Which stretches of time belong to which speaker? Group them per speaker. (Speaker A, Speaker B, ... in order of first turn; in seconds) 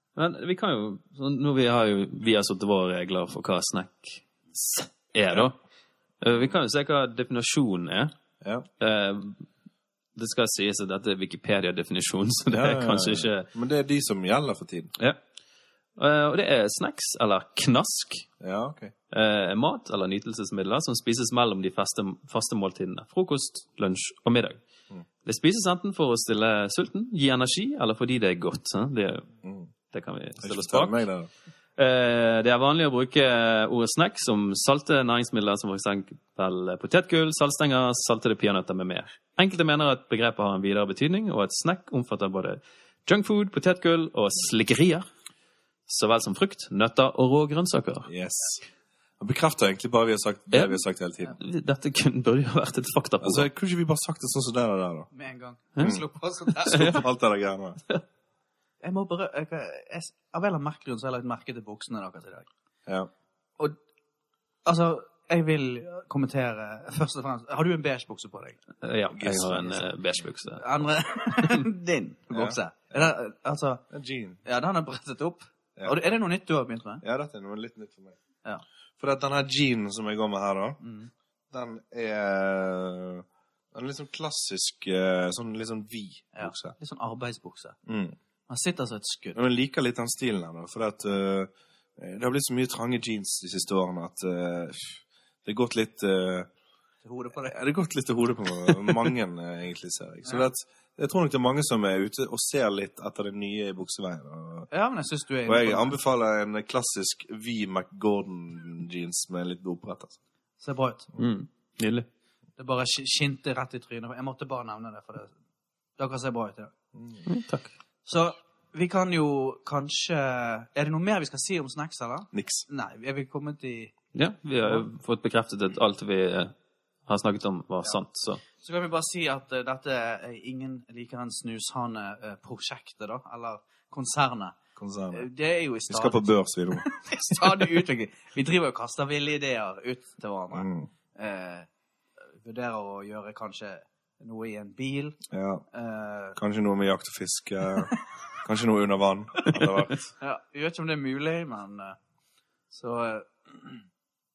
Speaker A: 0.2-5.6, 6.2-8.1, 8.8-9.4, 10.2-13.5, 16.0-18.3, 19.1-24.6, 25.2-29.3, 29.9-31.0, 31.8-45.1, 45.9-48.1, 50.5-50.8, 51.4-53.5, 68.8-70.7, 111.2-112.1, 117.3-117.7, 124.1-126.5, 127.1-128.4
Speaker B: 6.3-6.6, 12.5-14.9, 18.4-18.9, 29.4-29.7, 30.4-31.3, 48.1-48.6, 49.2-51.4, 53.2-55.1, 56.6-57.8, 69.1-70.2, 72.3-73.1, 73.9-74.4, 77.0-78.2, 79.0-80.8, 81.5-86.8, 87.9-88.2, 89.3-96.5, 97.4-104.7, 105.5-110.2, 117.0-117.2, 122.3-122.7, 134.8-135.3, 135.9-136.9, 140.5-140.9, 145.3-145.6, 146.4-150.1
Speaker C: 55.1-57.0, 58.8-62.5, 64.7-68.6, 70.6-73.8, 74.5-77.0, 80.8-81.1, 86.3-87.8, 88.5-89.4, 97.0-97.6, 104.7-106.0, 110.6-111.1, 112.6-115.3, 116.0-116.7, 118.1-123.9, 128.6-134.6, 135.1-141.7, 142.4-145.2, 145.7-146.4, 150.2-152.0, 152.7-153.8